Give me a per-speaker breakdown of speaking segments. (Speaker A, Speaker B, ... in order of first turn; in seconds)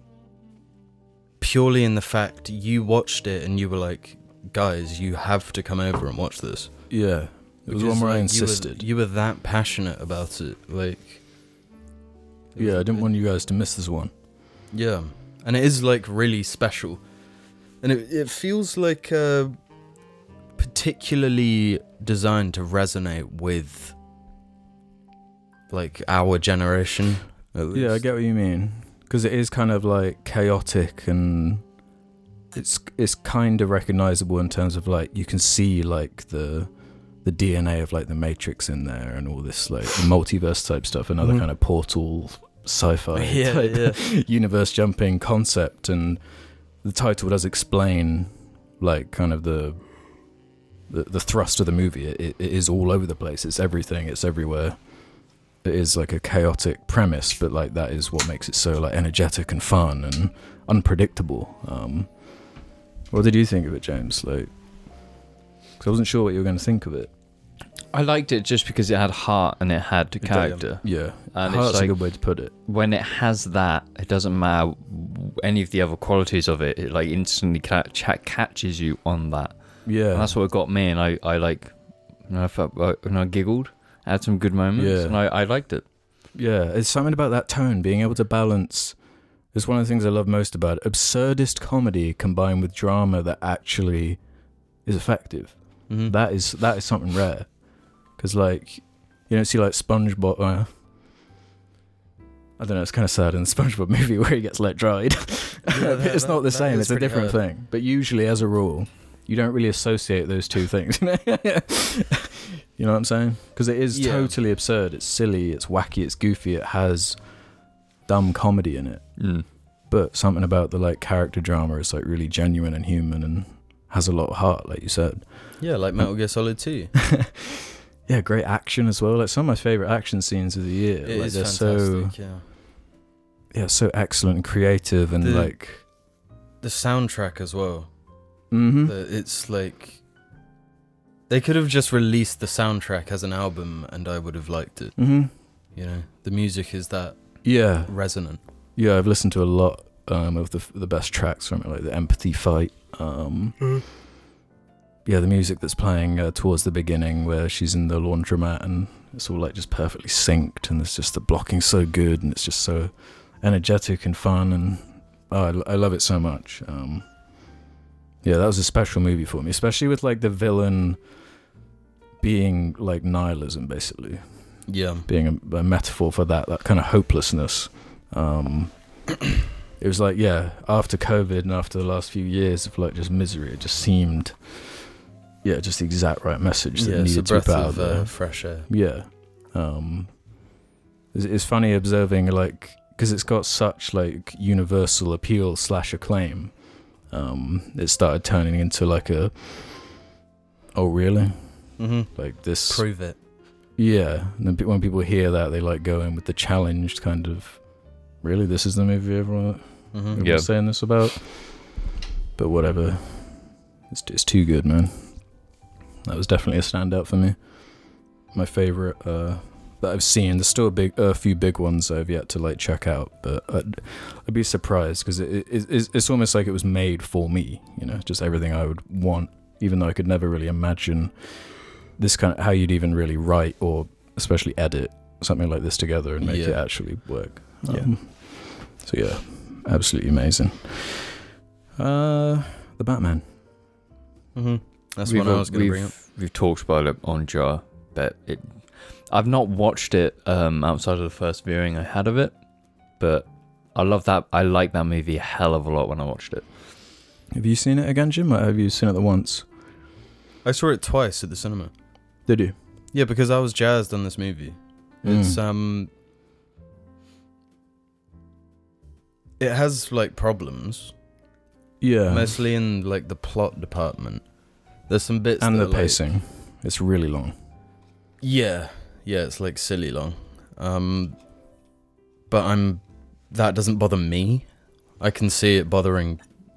Speaker A: 1.4-11.2, 12.5-13.1, 14.7-17.1, 17.8-19.6, 20.6-23.9, 25.7-28.1, 43.1-44.0, 70.3-70.6, 95.9-96.1, 105.7-107.4, 113.9-114.4, 125.6-126.9, 131.0-132.4, 135.2-135.9, 136.6-138.0, 138.8-140.0, 141.3-148.4, 174.7-175.1, 186.8-188.7, 201.8-203.2, 209.9-210.2, 236.2-237.9, 244.3-245.9, 260.4-261.7, 262.9-265.9, 269.4-270.9, 272.1-276.0, 278.2-281.2, 282.3-286.3
Speaker B: 6.9-8.8, 12.6-14.1, 27.7-31.7, 32.5-50.3, 50.9-64.5, 65.8-67.1, 70.2-72.5, 79.8-80.4, 84.8-85.2, 86.3-94.2, 94.8-100.7, 102.6-126.1, 126.9-132.2, 133.5-135.8, 138.5-138.9, 145.0-145.3, 147.4-148.2, 148.8-153.8, 155.0-167.6, 168.2-171.1, 172.2-179.1, 179.8-184.9, 185.4-190.5, 191.1-200.0, 200.7-203.0, 203.8-211.8, 212.3-215.5, 216.1-241.2, 241.8-243.2, 257.3-259.5, 262.2-262.6, 265.0-265.4, 271.8-272.3, 275.4-277.4
Speaker C: 67.9-85.8, 119.2-119.5, 210.2-210.5, 245.0-256.5